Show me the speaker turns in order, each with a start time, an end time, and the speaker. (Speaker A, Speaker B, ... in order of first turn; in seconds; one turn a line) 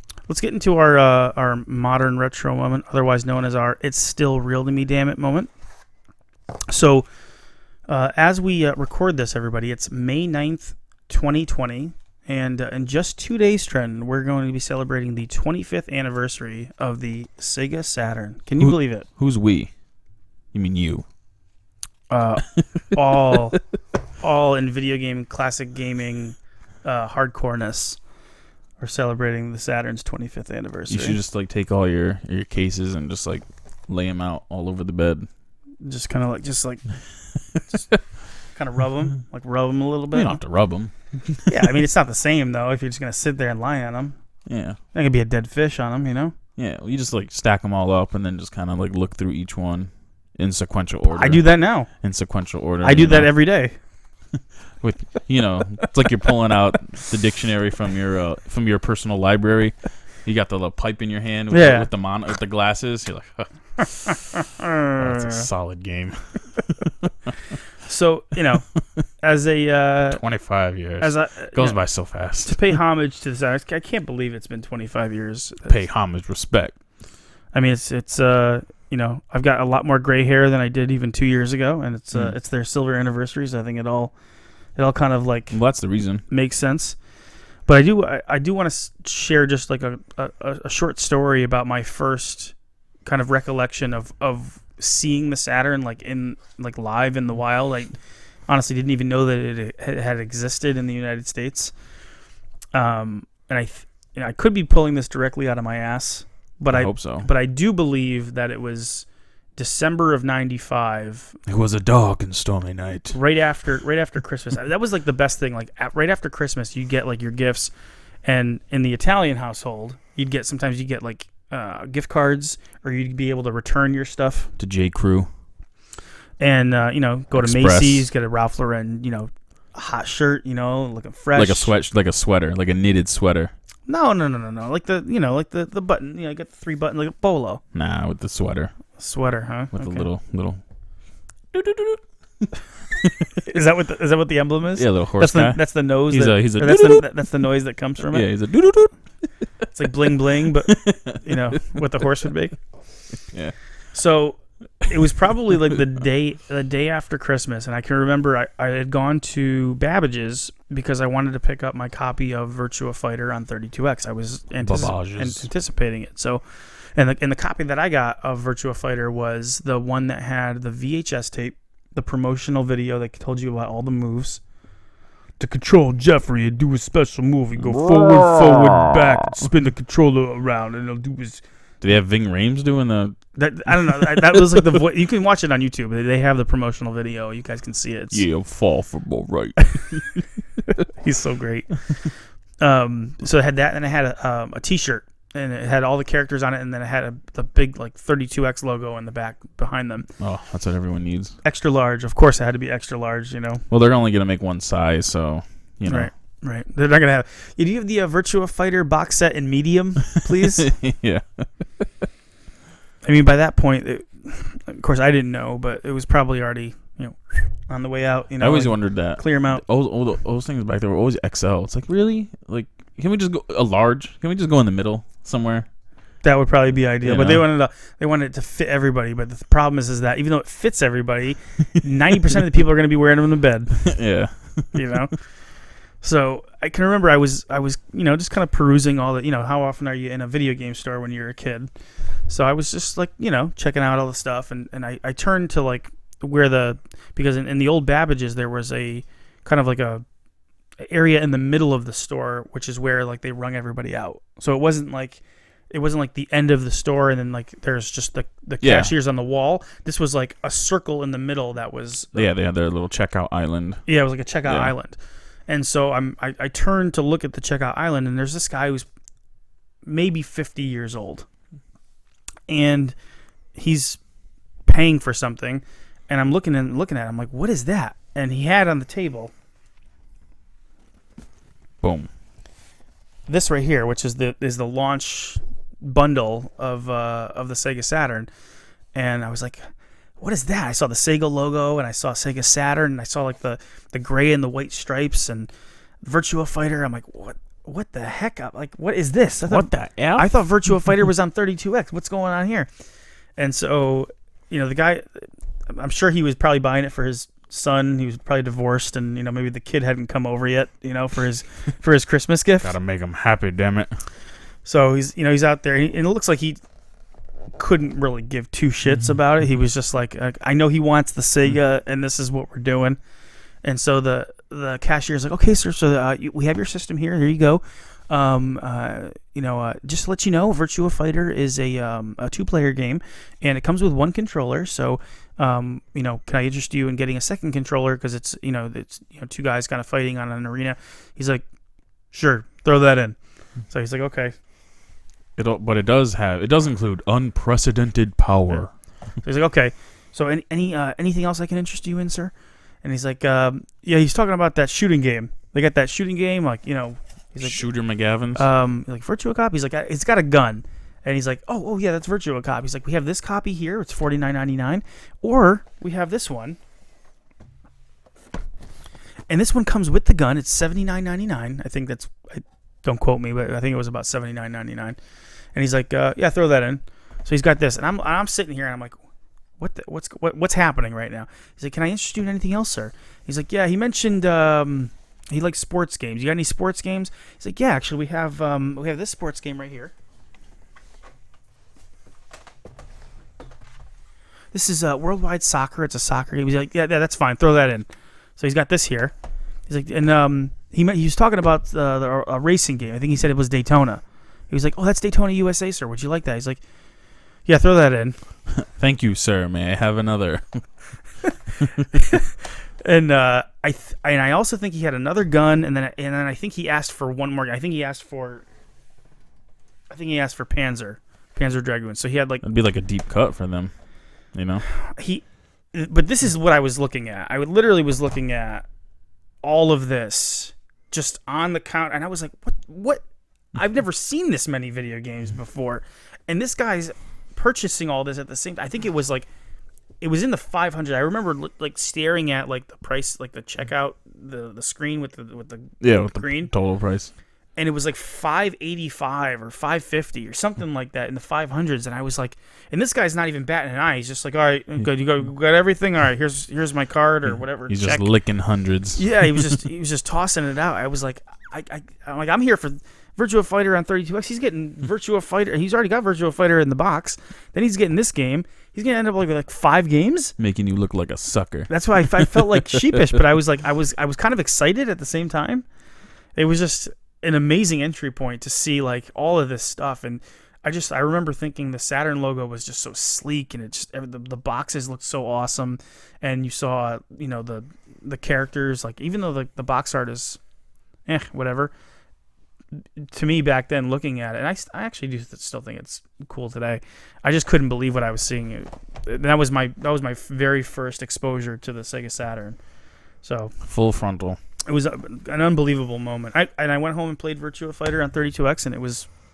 Speaker A: 0.3-5.5
Speaker A: 6.7-7.1
Speaker A: 7.9-19.1
Speaker B: 18.6-19.7
Speaker B: 20.5-21.1
Speaker A: 22.1-23.6
Speaker A: 24.2-28.0
Speaker A: 28.8-31.2
Speaker B: 30.9-35.3
Speaker A: 35.8-36.8
Speaker A: 38.5-40.4
Speaker B: 40.1-41.6
Speaker A: 41.5-44.2
Speaker B: 44.5-44.8
Speaker A: 44.9-46.4
Speaker B: 46.6-53.4
Speaker A: 51.1-51.9
Speaker A: 52.8-53.8
Speaker B: 54.8-64.1
Speaker A: 61.5-61.9
Speaker A: 63.8-65.5
Speaker B: 65.0-67.3
Speaker A: 67.8-68.7
Speaker A: 69.2-70.2
Speaker B: 70.1-72.6
Speaker A: 71.0-71.8
Speaker A: 72.4-75.8
Speaker B: 75.7-76.8
Speaker A: 77.5-84.1
Speaker A: 84.8-85.6
Speaker B: 85.5-86.2
Speaker A: 86.3-87.0
Speaker A: 87.7-92.5
Speaker A: 93.0-98.0
Speaker A: 98.5-101.7
Speaker A: 102.7-111.4
Speaker B: 106.7-107.3
Speaker B: 111.5-113.2
Speaker A: 113.1-117.7
Speaker A: 118.2-124.5
Speaker B: 124.6-125.3
Speaker A: 126.4-131.7
Speaker B: 127.3-128.1
Speaker B: 131.3-133.5
Speaker A: 133.9-137.6
Speaker B: 137.7-138.7
Speaker A: 139.0-140.1
Speaker B: 139.7-140.6
Speaker B: 141.5-142.0
Speaker B: 143.0-143.3
Speaker A: 143.4-148.3
Speaker B: 144.8-147.1
Speaker B: 148.1-148.9
Speaker A: 149.7-152.6
Speaker B: 150.7-151.8
Speaker A: 153.9-166.4
Speaker B: 164.6-165.5
Speaker A: 166.9-174.4
Speaker A: 175.4-181.4
Speaker B: 177.6-178.9
Speaker B: 181.8-183.2
Speaker A: 183.4-188.2
Speaker B: 183.7-184.7
Speaker B: 188.1-190.2
Speaker A: 191.0-191.9
Speaker A: 192.6-200.1
Speaker B: 200.2-201.3
Speaker A: 201.4-203.6
Speaker B: 203.7-206.1
Speaker A: 205.9-210.7
Speaker B: 210.3-211.9
Speaker A: 213.0-219.6
Speaker B: 218.4-225.7
Speaker A: 226.2-233.9
Speaker B: 227.0-227.5
Speaker B: 233.8-234.8
Speaker A: 234.7-235.2
Speaker A: 236.0-241.7
Speaker A: 242.3-250.0
Speaker A: 250.8-262.3
Speaker B: 258.6-258.9
Speaker B: 262.1-263.8
Speaker A: 263.9-265.0
Speaker B: 264.4-264.7
Speaker A: 265.5-268.9
Speaker A: 269.9-271.3
Speaker A: 272.5-272.9
Speaker A: 273.6-274.0
Speaker A: 274.7-279.3
Speaker B: 281.8-282.1
Speaker A: 283.3-288.3
Speaker A: 288.9-289.6
Speaker A: 290.2-295.5
Speaker A: 296.0-302.7
Speaker B: 299.4-300.3
Speaker A: 303.4-312.8
Speaker B: 312.6-313.9
Speaker A: 314.6-316.6
Speaker A: 317.6-323.0
Speaker A: 323.6-341.4
Speaker A: 342.1-343.2
Speaker A: 343.7-344.3
Speaker B: 345.4-348.7
Speaker A: 349.2-357.6
Speaker B: 357.4-358.4
Speaker A: 358.4-366.6
Speaker A: 369.3-375.0
Speaker A: 375.6-379.0
Speaker A: 379.6-389.9
Speaker A: 394.5-399.1
Speaker A: 399.7-406.6
Speaker A: 407.4-408.2
Speaker B: 408.5-410.6
Speaker A: 411.9-412.3
Speaker A: 412.8-418.4
Speaker A: 419.9-422.4
Speaker B: 422.4-423.7
Speaker B: 424.3-424.6
Speaker A: 424.8-428.7
Speaker A: 429.4-433.0
Speaker A: 433.6-439.3
Speaker A: 440.0-446.5
Speaker B: 445.8-447.1
Speaker A: 447.6-458.1
Speaker B: 457.7-459.5
Speaker A: 459.0-470.4
Speaker B: 470.4-473.1
Speaker A: 471.7-475.6
Speaker A: 476.4-490.4
Speaker A: 491.1-491.7
Speaker A: 493.0-502.6
Speaker A: 503.2-503.5
Speaker B: 503.6-504.4
Speaker A: 504.7-509.1